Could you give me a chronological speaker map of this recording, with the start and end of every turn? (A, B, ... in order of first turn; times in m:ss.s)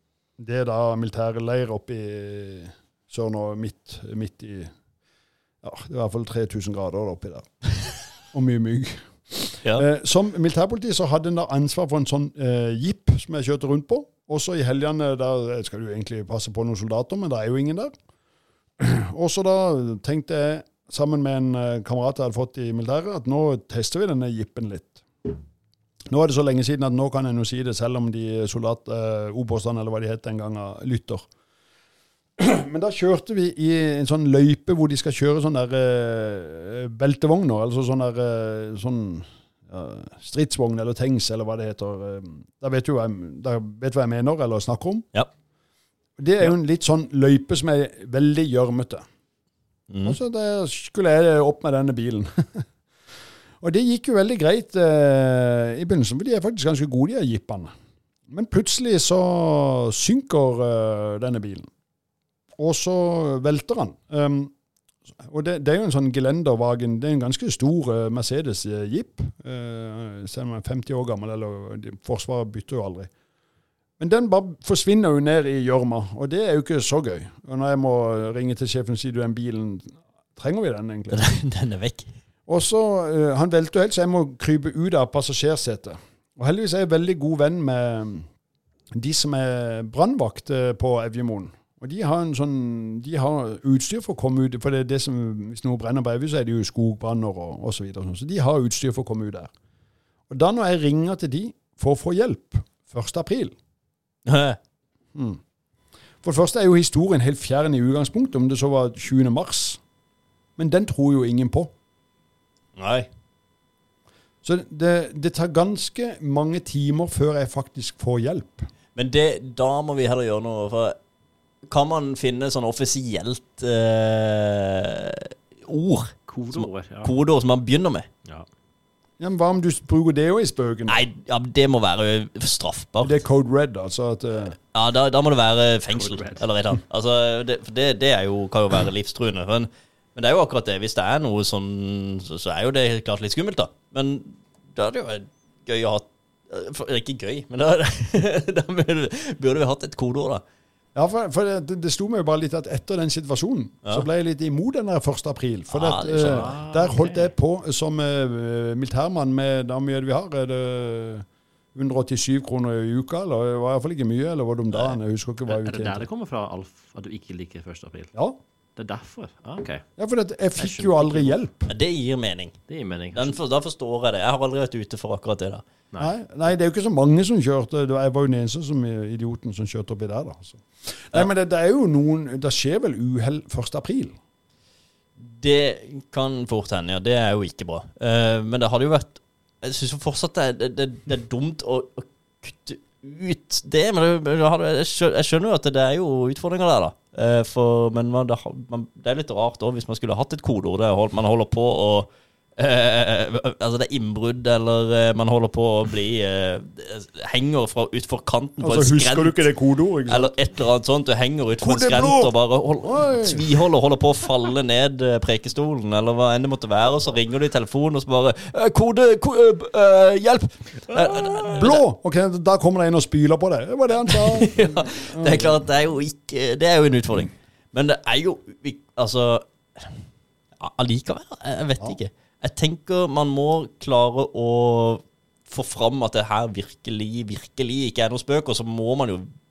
0:00.4-0:04.7 A
0:05.6-0:17.9 A
0:18.8-0:25.4 A
0:26.1-0:31.2 A
0:32.4-0:45.0 A
0:46.2-0:49.0 A
0:49.9-0:50.2 B
0:50.0-0:52.6 A
0:53.6-0:57.7 A
0:58.3-1:01.7 A
1:02.6-1:04.5 A
1:05.2-1:13.1 A
1:14.0-1:21.3 A
1:21.1-1:22.1 B
1:22.5-1:28.3 A
1:28.9-1:39.5 A
1:40.3-1:43.5 A
1:44.2-1:44.6 B
1:45.1-1:45.4 A
1:46.2-1:49.8 A
1:50.6-1:51.7 A
1:52.8-1:53.1 B
1:54.4-1:58.7 A
1:58.9-2:01.0 B
2:01.6-2:08.1 B
2:06.3-2:07.1 C
2:09.2-2:11.0 A
2:10.9-2:13.2 B
2:13.0-2:14.6 A
2:14.7-2:30.4 B
2:15.9-2:16.4 C
2:30.9-2:46.1 A
2:35.7-2:36.5 B
2:36.1-2:37.3 C
2:45.5-2:48.1 C
2:48.8-2:49.8 C
2:50.0-2:51.7 A
2:50.6-2:51.4 C
2:51.7-2:52.6 B
2:52.7-2:53.4 C
2:53.1-2:55.6 B
2:56.0-3:04.2 A
3:05.2-3:29.5 B
3:28.6-3:30.4 A
3:30.1-3:41.8 B
3:31.6-3:33.4 A
3:41.1-3:41.5 C
3:41.5-3:45.6 A
3:44.0-3:50.0 B
3:50.6-3:59.3 B